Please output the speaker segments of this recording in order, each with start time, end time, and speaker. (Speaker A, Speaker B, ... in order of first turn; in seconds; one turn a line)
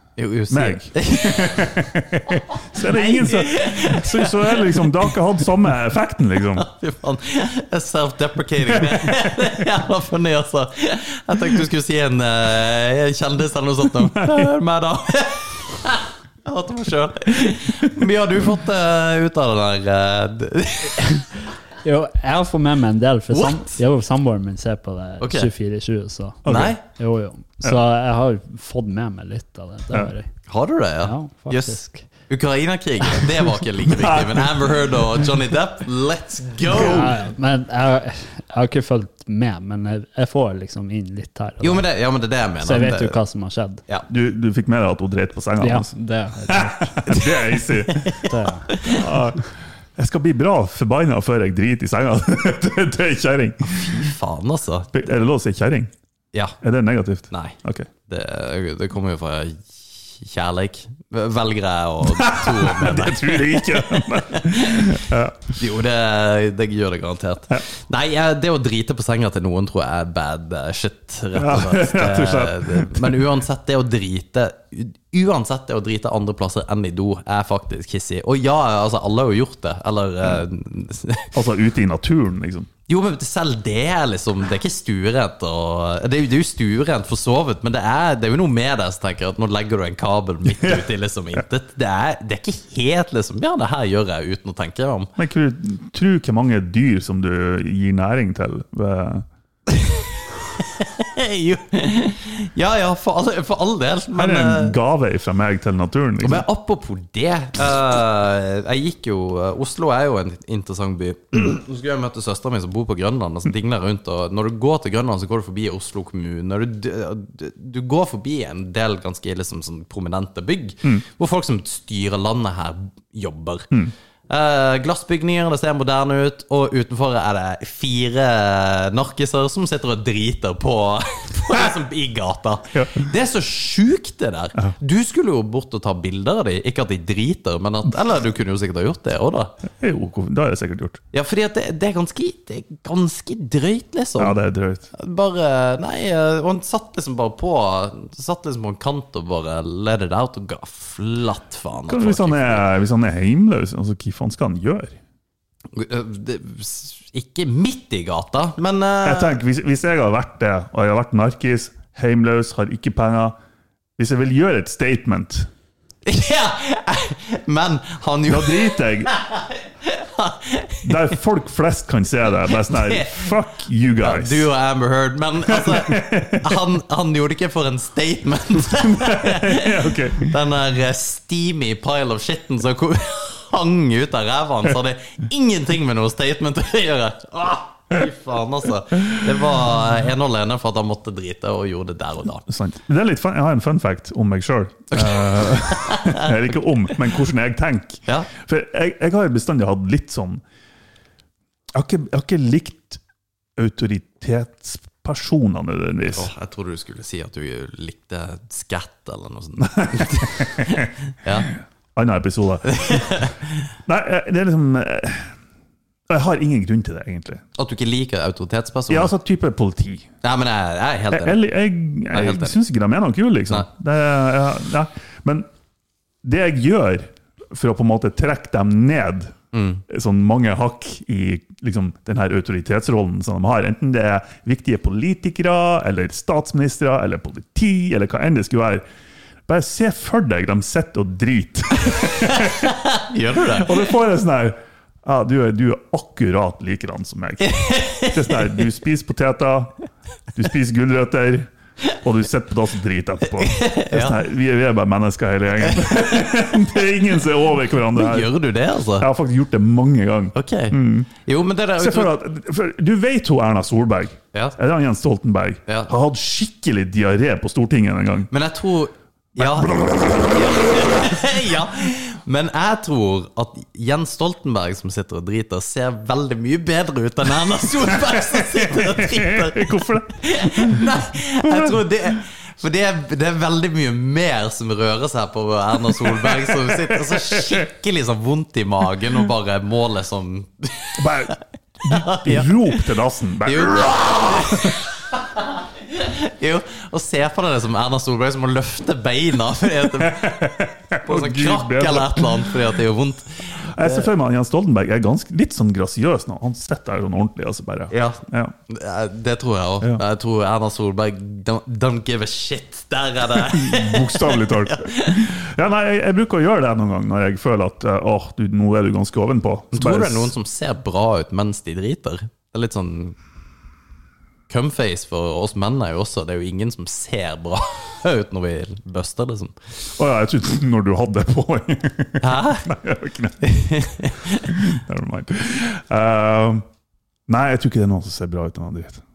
Speaker A: 0.2-1.9
Speaker B: 0.5-6.7
Speaker A: 2.8-5.1
Speaker A: 6.6-21.2
Speaker B: 14.1-14.5
Speaker C: 21.8-30.3
Speaker A: 23.3-23.8
Speaker A: 25.2-25.5
Speaker B: 26.4-26.8
Speaker A: 26.4-26.8
Speaker A: 30.5-37.1
Speaker C: 31.0-32.0
Speaker B: 33.9-35.0
Speaker C: 36.7-41.9
Speaker A: 41.6-43.2
Speaker C: 42.6-43.8
Speaker B: 44.1-45.9
Speaker C: 45.6-47.0
Speaker B: 46.5-48.3
Speaker A: 47.1-49.0
Speaker C: 48.3-48.7
Speaker B: 48.9-54.1
Speaker A: 53.6-54.9
Speaker B: 54.9-55.9
Speaker B: 56.6-57.9
Speaker A: 57.3-81.3
Speaker B: 62.2-65.6
Speaker B: 71.3-73.2
Speaker B: 81.3-82.7
Speaker A: 82.9-95.1
Speaker B: 95.2-99.2
Speaker A: 100.6-104.8
Speaker B: 104.2-106.5
Speaker A: 106.2-123.7
Speaker A: 124.3-139.5
Speaker B: 132.7-133.0
Speaker B: 139.8-141.0
Speaker A: 141.1-144.3
Speaker B: 144.2-144.9
Speaker A: 144.9-152.6
Speaker B: 151.9-155.0
Speaker A: 155.7-159.4
Speaker B: 159.0-163.3
Speaker B: 164.0-165.5
Speaker A: 166.1-171.1
Speaker B: 168.3-169.1
Speaker B: 170.8-174.5
Speaker A: 172.5-173.3
Speaker A: 174.0-192.4
Speaker B: 175.5-176.6
Speaker B: 178.8-180.3
Speaker B: 192.5-200.4
Speaker A: 195.0-196.2
Speaker B: 201.7-203.0
Speaker B: 203.6-206.3
Speaker A: 206.1-211.5
Speaker B: 209.7-210.7
Speaker B: 211.9-213.2
Speaker A: 212.7-213.4
Speaker B: 213.9-215.3
Speaker B: 216.1-217.4
Speaker A: 217.6-219.1
Speaker B: 218.9-220.1
Speaker A: 220.2-221.4
Speaker B: 221.1-225.5
Speaker A: 222.1-222.5
Speaker B: 226.2-229.3
Speaker A: 229.5-229.8
Speaker B: 229.9-238.8
Speaker B: 239.5-242.7
Speaker A: 242.2-243.7
Speaker B: 243.6-249.7
Speaker A: 247.4-248.5
Speaker B: 250.3-258.3
Speaker A: 253.4-254.2
Speaker A: 255.7-256.2
Speaker A: 257.9-259.1
Speaker B: 259.0-261.1
Speaker A: 260.3-262.1
Speaker B: 261.8-268.3
Speaker A: 268.3-291.2
Speaker B: 269.4-270.6
Speaker B: 278.6-281.8
Speaker B: 286.2-287.4
Speaker B: 291.0-294.8
Speaker A: 291.8-292.8
Speaker A: 293.4-295.4
Speaker A: 295.9-300.4
Speaker B: 300.0-302.6
Speaker A: 301.0-304.1
Speaker B: 303.7-308.5
Speaker A: 307.9-315.2
Speaker B: 313.4-320.3
Speaker A: 319.7-323.1
Speaker A: 324.5-329.5
Speaker B: 330.0-336.6
Speaker A: 332.2-332.7
Speaker A: 333.4-334.5
Speaker B: 337.3-339.0